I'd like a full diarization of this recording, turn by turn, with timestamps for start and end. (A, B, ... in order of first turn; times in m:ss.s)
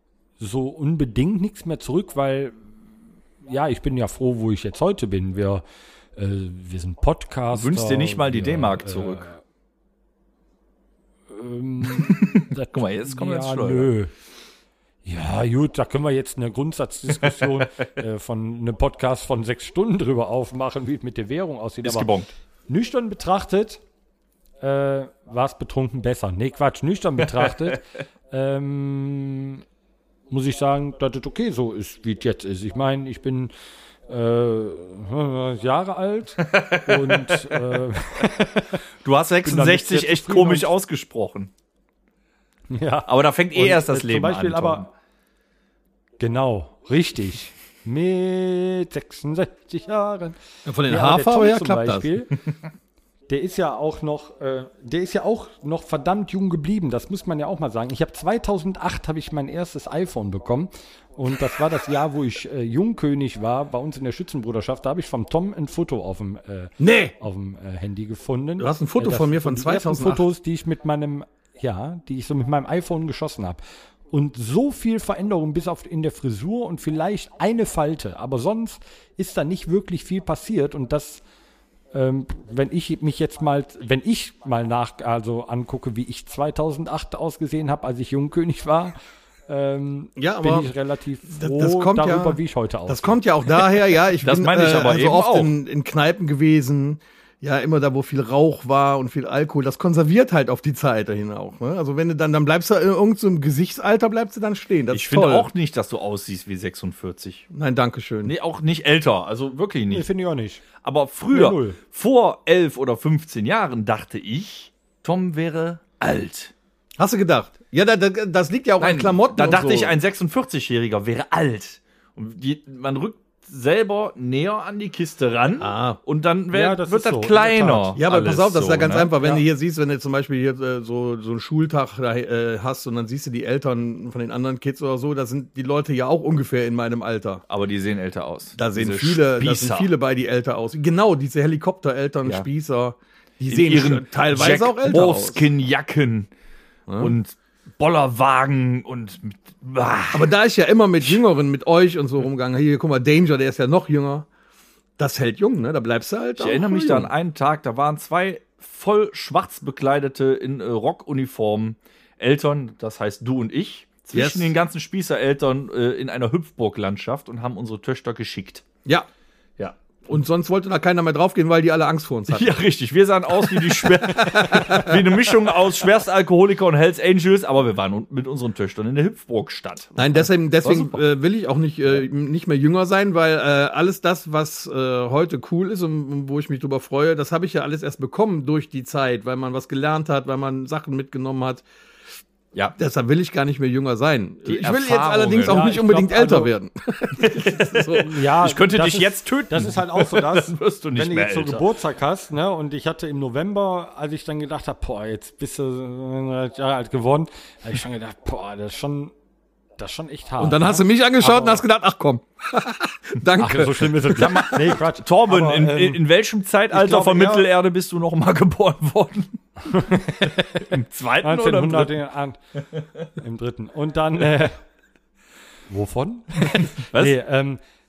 0:00.4-0:02.6 A
0:03.4-0:05.6 A
0:06.2-0:09.4 A
0:07.5-0:09.3 B
0:11.3-0:14.1 A
0:12.0-0:13.9 B
0:15.0-0:22.1 A
0:17.2-0:17.7 B
0:21.8-0:22.3 B
0:22.7-0:23.8 A
0:24.6-0:29.6 A
0:30.3-0:33.5 A
0:34.1-0:38.8 A
0:36.4-0:37.6 B
0:39.0-0:41.5 B
0:39.4-0:40.7 A
0:42.7-0:44.9 A
0:43.1-0:44.9 B
0:46.2-0:52.3 A
0:50.6-0:52.1 C
0:53.3-1:21.2 A
1:06.8-1:07.1 C
1:08.6-1:10.2 C
1:21.9-1:29.0 A
1:29.5-1:33.2 A
1:30.2-1:30.7 C
1:31.3-1:45.5 C
1:34.2-1:35.5 B
1:44.9-1:47.4 B
1:47.5-1:48.3 C
1:48.2-1:50.1 B
1:49.9-1:50.6 A
1:50.8-1:56.5 B
1:51.3-1:51.8 A
1:57.0-2:00.0 C
1:58.8-2:09.2 B
2:05.6-2:06.0 C
2:06.5-2:08.0 A
2:08.0-2:17.4 C
2:17.5-2:19.9 B
2:18.6-2:25.4 C
2:23.5-2:26.3 B
2:26.9-2:27.1 C
2:27.0-2:30.3 B
2:30.1-2:34.3 C
2:35.0-2:37.1 C
2:36.4-2:48.6 B
2:44.1-2:44.5 C
2:50.1-2:52.6 C
2:52.3-3:00.0 B
2:53.4-2:55.1 C
3:00.0-3:11.6 C
3:00.6-3:01.0 B
3:12.8-3:18.1 C
3:14.4-3:15.7 B
3:15.4-3:16.5 A
3:17.2-3:21.6 B
3:18.0-3:29.1 A
3:29.8-3:31.6 A
3:30.4-3:34.5 C
3:33.4-3:36.0 A
3:34.1-3:41.9 B
3:36.7-3:37.5 A
3:39.7-3:40.7 A
3:41.2-3:42.4 A
3:43.2-3:44.6 A
3:45.7-3:47.6 A